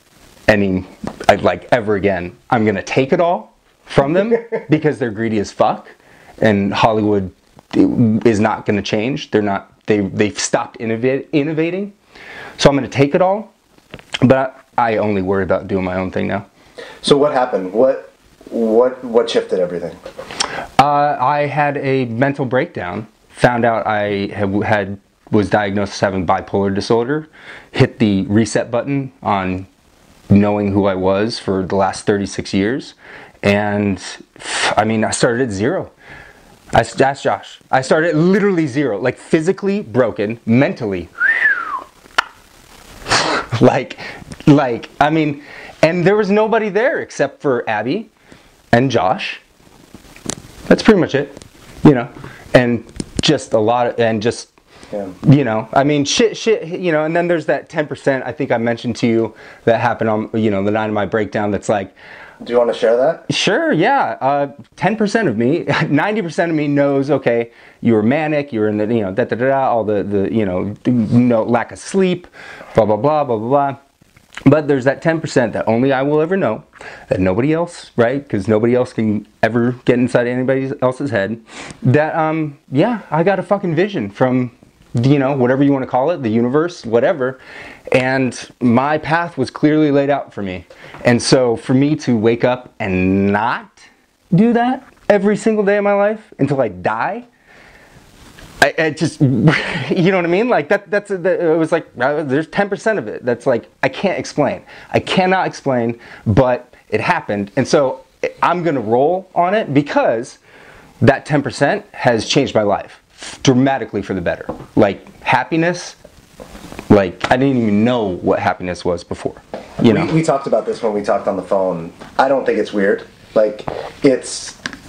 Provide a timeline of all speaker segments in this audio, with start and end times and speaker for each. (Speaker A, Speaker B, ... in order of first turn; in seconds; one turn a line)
Speaker A: 0.5-11.9
Speaker A: 12.6-13.5
Speaker A: 14.2-16.4
Speaker B: 17.0-20.0
Speaker A: 20.8-29.7
Speaker A: 30.3-35.9
Speaker A: 36.7-41.8
Speaker A: 43.2-48.1
Speaker A: 48.7-49.4
Speaker A: 50.7-54.5
Speaker A: 55.2-61.9
Speaker B: 62.4-63.2
Speaker A: 63.3-73.8
Speaker A: 74.5-87.4
Speaker A: 87.9-97.2
Speaker A: 98.6-110.4
Speaker A: 111.0-116.0
Speaker A: 116.9-120.1
Speaker B: 119.8-124.6